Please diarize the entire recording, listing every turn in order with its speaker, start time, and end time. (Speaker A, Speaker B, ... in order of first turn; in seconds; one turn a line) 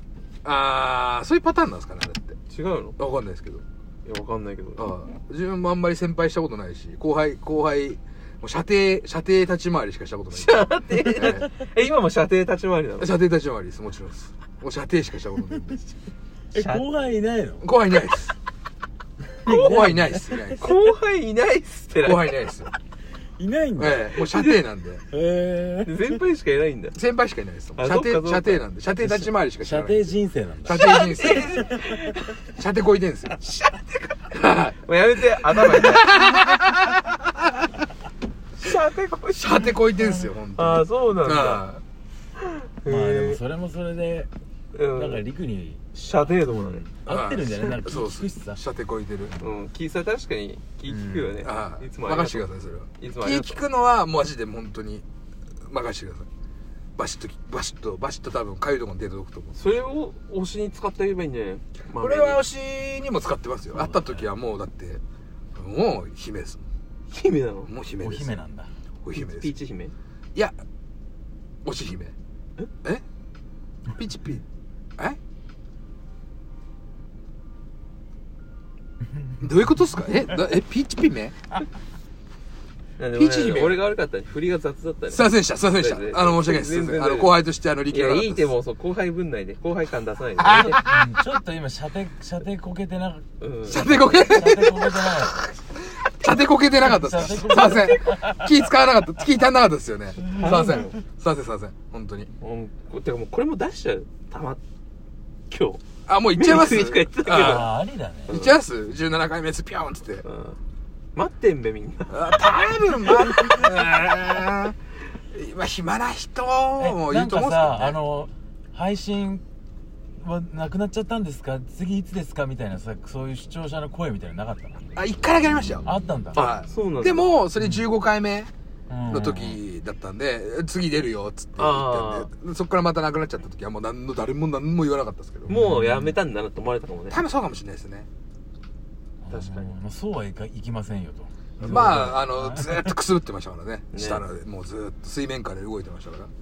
Speaker A: 0.4-2.4
Speaker B: 2.5-3.0
Speaker A: 3.0-3.6
Speaker B: 4.0-4.9
Speaker A: 4.8-11.5
Speaker B: 10.3-13.1
Speaker A: 13.0-15.9
Speaker C: 16.5-17.6
Speaker B: 16.5-16.9
Speaker A: 17.6-18.4
Speaker C: 19.4-20.4
Speaker B: 19.4-19.9
Speaker A: 19.5-20.8
Speaker B: 20.5-22.3
Speaker A: 22.0-22.7
Speaker C: 23.4-24.1
Speaker A: 23.8-25.0
Speaker B: 24.1-24.6
Speaker C: 25.1-26.2
Speaker B: 25.8-26.9
Speaker A: 26.9-31.7
Speaker B: 27.8-28.6
Speaker C: 29.0-30.9
Speaker B: 30.7-32.2
Speaker C: 31.5-31.8
Speaker A: 32.5-33.4
Speaker B: 33.4-34.3
Speaker A: 34.3-37.1
Speaker B: 34.8-36.1
Speaker B: 38.6-39.8
Speaker A: 39.3-41.8
Speaker B: 40.5-41.6
Speaker B: 42.8-43.4
Speaker C: 42.9-44.3
Speaker B: 44.7-45.3
Speaker C: 44.9-48.6
Speaker B: 45.9-46.9
Speaker A: 47.0-49.3
Speaker B: 49.4-52.5
Speaker C: 50.9-51.3
Speaker A: 51.4-55.0
Speaker B: 53.0-53.6
Speaker A: 55.7-56.3
Speaker A: 57.0-59.7
Speaker B: 59.5-62.4
Speaker A: 62.0-65.0
Speaker C: 63.7-64.3
Speaker A: 65.5-66.6
Speaker B: 67.1-67.7
Speaker A: 67.7-68.3
Speaker C: 68.0-68.7
Speaker A: 69.0-69.5
Speaker B: 69.1-69.9
Speaker A: 71.6-72.1
Speaker A: 73.9-74.4
Speaker A: 79.4-81.3
Speaker B: 83.0-87.4
Speaker A: 83.1-83.9
Speaker A: 85.1-88.5
Speaker B: 87.9-90.8
Speaker A: 90.4-91.0
Speaker C: 90.5-95.4
Speaker B: 93.4-94.4
Speaker A: 93.7-95.2
Speaker A: 96.2-102.3
Speaker C: 96.8-98.5
Speaker B: 100.2-101.0
Speaker B: 102.4-104.6
Speaker B: 105.5-108.6
Speaker A: 106.1-107.7
Speaker C: 107.3-108.4
Speaker A: 108.3-110.2
Speaker B: 110.2-110.6
Speaker B: 111.1-113.5
Speaker A: 112.1-114.8
Speaker A: 115.3-118.0
Speaker C: 116.8-119.4
Speaker C: 120.2-125.0
Speaker A: 124.9-128.5
Speaker C: 125.8-126.5
Speaker B: 126.3-127.4
Speaker C: 127.5-127.9
Speaker C: 128.9-129.6
Speaker A: 129.1-135.6
Speaker B: 131.6-132.3
Speaker C: 135.5-136.2
Speaker B: 135.5-137.2
Speaker A: 137.1-138.1
Speaker C: 139.2-143.0
Speaker B: 139.3-139.8
Speaker B: 141.6-142.1
Speaker A: 141.6-146.3
Speaker B: 143.9-144.2